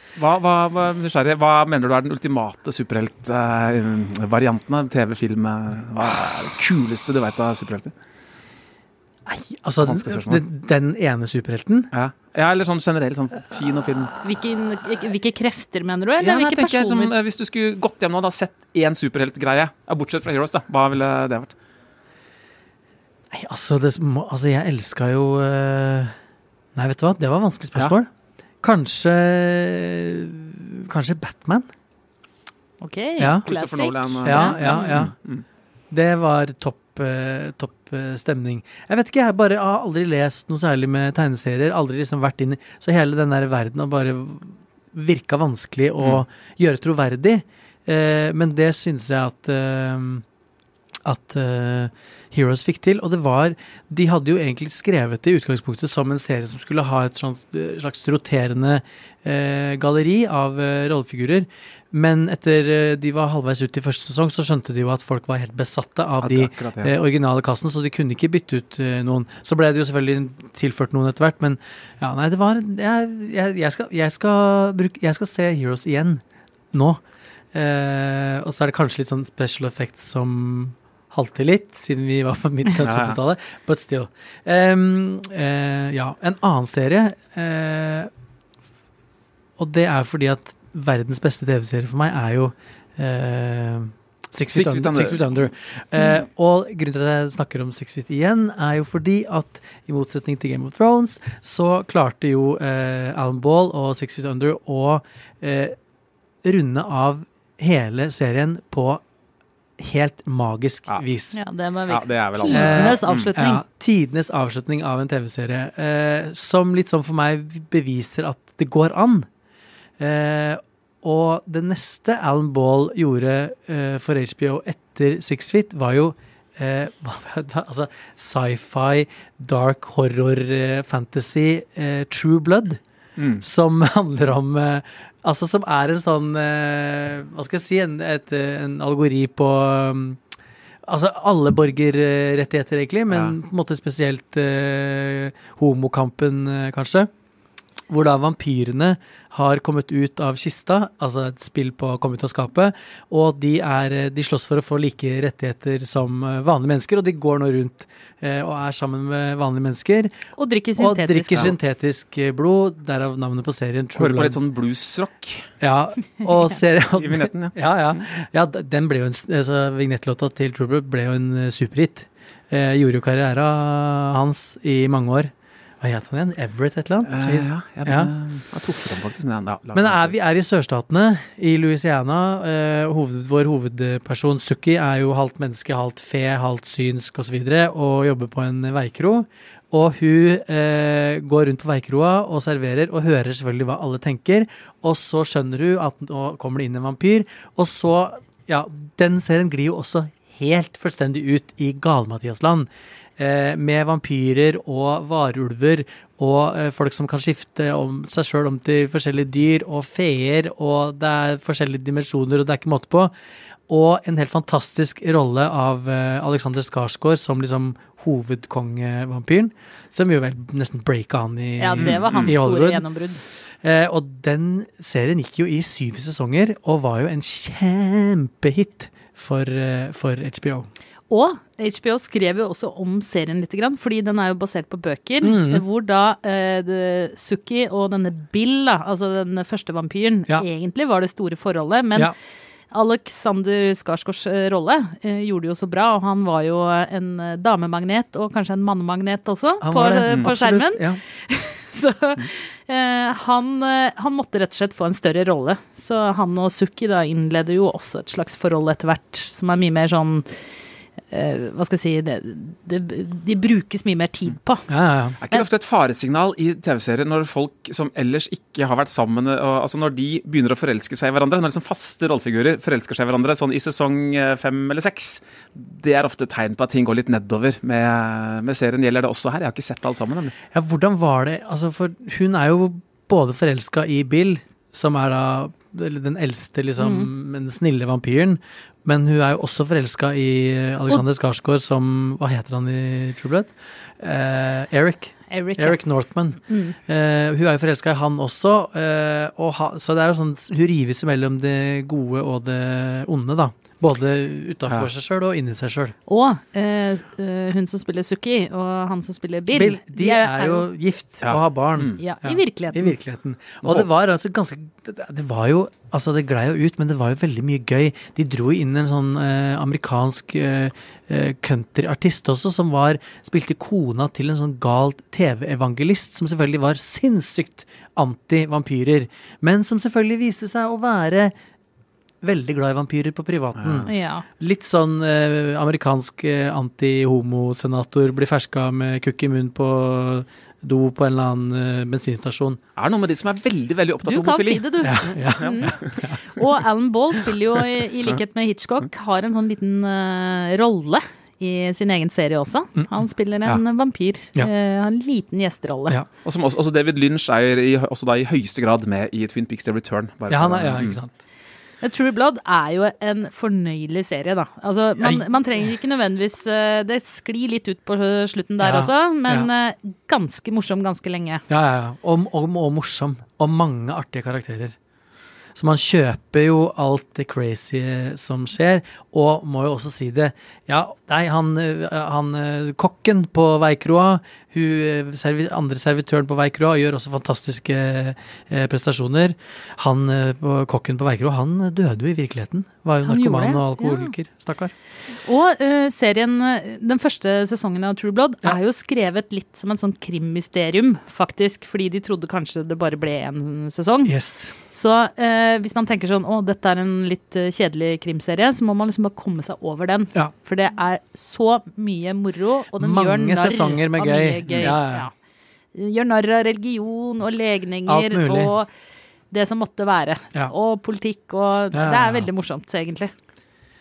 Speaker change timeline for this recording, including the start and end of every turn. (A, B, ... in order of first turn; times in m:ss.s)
0:00.2-0:07.9 A
0:09.2-0:11.9 B
0:09.8-0:10.4 A
0:11.9-0:14.2 A
0:14.2-0:17.1 C
0:16.2-0:21.5 A
0:23.3-0:26.1 B
0:26.7-0:28.1 B
0:28.6-0:31.7 B
0:32.8-0:34.9 C
0:33.2-0:33.4 B
0:33.4-0:35.4 A
0:34.2-0:35.1 B
0:35.9-0:50.2 B
0:51.0-1:17.0 B
1:06.2-1:06.9 A
1:17.5-1:28.1 B
1:22.8-1:23.2 A
1:29.6-1:45.8 B
1:34.5-1:35.2 A
1:46.4-1:49.0 B
1:49.8-1:51.4 B
1:51.3-1:53.6 C
1:51.9-1:53.3 A
1:52.5-1:59.3 B
2:00.0-2:12.8 B
2:13.2-2:13.4 A
2:13.4-2:20.2 B
2:20.9-2:27.1 B
2:23.1-2:23.4 A
2:27.9-2:40.2 B
2:40.4-2:41.5 C
2:40.8-2:44.4 B
2:44.0-2:45.5 A
2:45.6-2:58.1 B
2:47.0-2:48.0 A
2:57.0-3:00.1 A
2:59.7-3:33.1 B
3:33.7-3:42.8 B
3:41.6-3:43.2 C
3:41.8-3:42.3 A
3:43.6-3:50.7 B
3:51.1-4:02.1 C
3:55.2-3:55.6 B
4:02.7-4:20.2 C
4:09.6-4:11.0 B
4:21.1-4:24.6 C
4:24.7-4:25.2 B
4:25.2-4:40.3 A
4:40.5-5:05.9 B
4:46.8-4:47.1 C
4:55.3-4:55.8 C
4:56.5-4:56.8 C
5:06.1-5:10.6 C
5:09.5-5:31.3 B
5:11.2-5:12.0 A
5:12.0-5:13.0 C
5:32.2-5:42.6 B
5:33.6-5:33.9 A
5:33.9-5:34.2 C
5:42.8-5:44.7 A
5:44.0-5:56.0 C
5:44.8-5:46.2 B
5:45.2-5:46.0 A
5:56.2-6:01.0 A
6:00.3-6:01.2 B
6:01.8-6:11.4 C
6:08.6-6:09.5 B
6:11.5-6:14.8 B
6:15.5-6:34.7 B
6:33.0-6:34.1 C
6:35.2-6:44.1 C
6:44.0-6:44.5 B
6:44.7-6:55.1 C
6:52.7-6:55.1 B
6:54.5-6:54.7 A
6:55.7-6:58.7 C
6:57.8-6:58.5 B
6:59.3-7:03.1 C
7:01.7-7:02.3 B